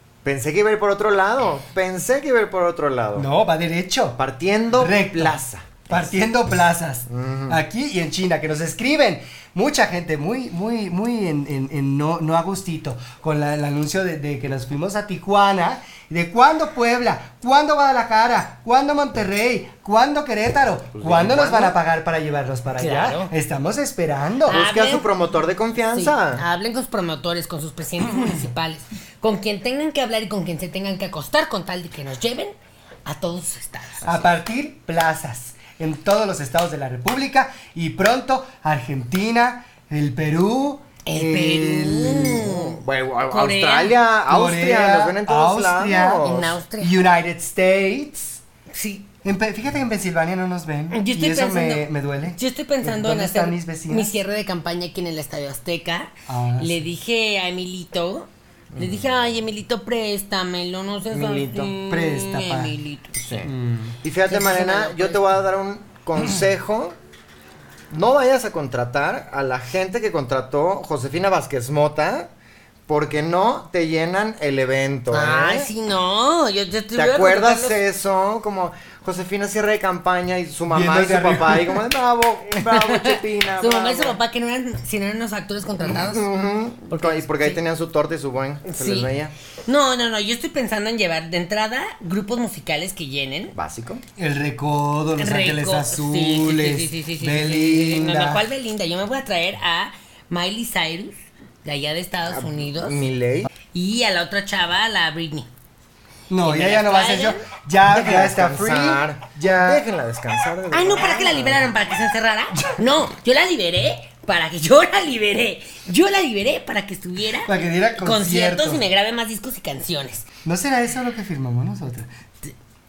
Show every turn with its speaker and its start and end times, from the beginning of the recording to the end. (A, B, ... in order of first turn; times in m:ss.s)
0:00.2-0:03.3 A
0:03.2-0:04.2 B
0:04.2-0:05.9 A
0:04.8-0:24.6 B
0:07.1-0:07.6 A
0:21.0-0:21.8 A
0:22.8-0:23.3 C
0:24.5-0:25.1 C
0:24.5-0:26.4 A
0:25.9-0:34.3 C
0:34.0-0:42.4 B
0:41.0-0:44.0 C
0:42.2-0:46.6 A
0:44.3-0:48.4 B
0:46.2-0:47.0 C
0:48.7-0:49.1 C
0:49.2-0:54.1 B
0:50.9-1:03.5 C
0:56.3-0:56.9 B
0:58.7-0:59.2 A
1:01.1-1:01.7 A
1:01.9-1:02.8 B
1:03.2-1:03.5 A
1:03.4-1:04.0 B
1:04.0-1:07.0 A
1:04.3-1:05.2 C
1:07.9-1:12.3 A
1:12.9-1:15.7 A
1:15.1-1:17.8 C
1:16.9-1:24.2 A
1:20.7-1:21.8 B
1:22.7-1:26.3 C
1:25.8-1:29.3 A
1:26.9-1:27.6 C
1:28.7-1:29.1 C
1:29.7-1:33.6 C
1:33.6-1:34.0 A
1:34.2-1:38.4 B
1:35.2-1:43.0 C
1:42.4-1:43.5 A
1:43.7-1:45.5 C
1:46.3-1:49.8 B
1:46.4-1:47.4 C
1:47.9-1:51.7 A
1:50.7-2:00.3 C
1:57.4-1:58.8 B
2:00.4-2:02.1 B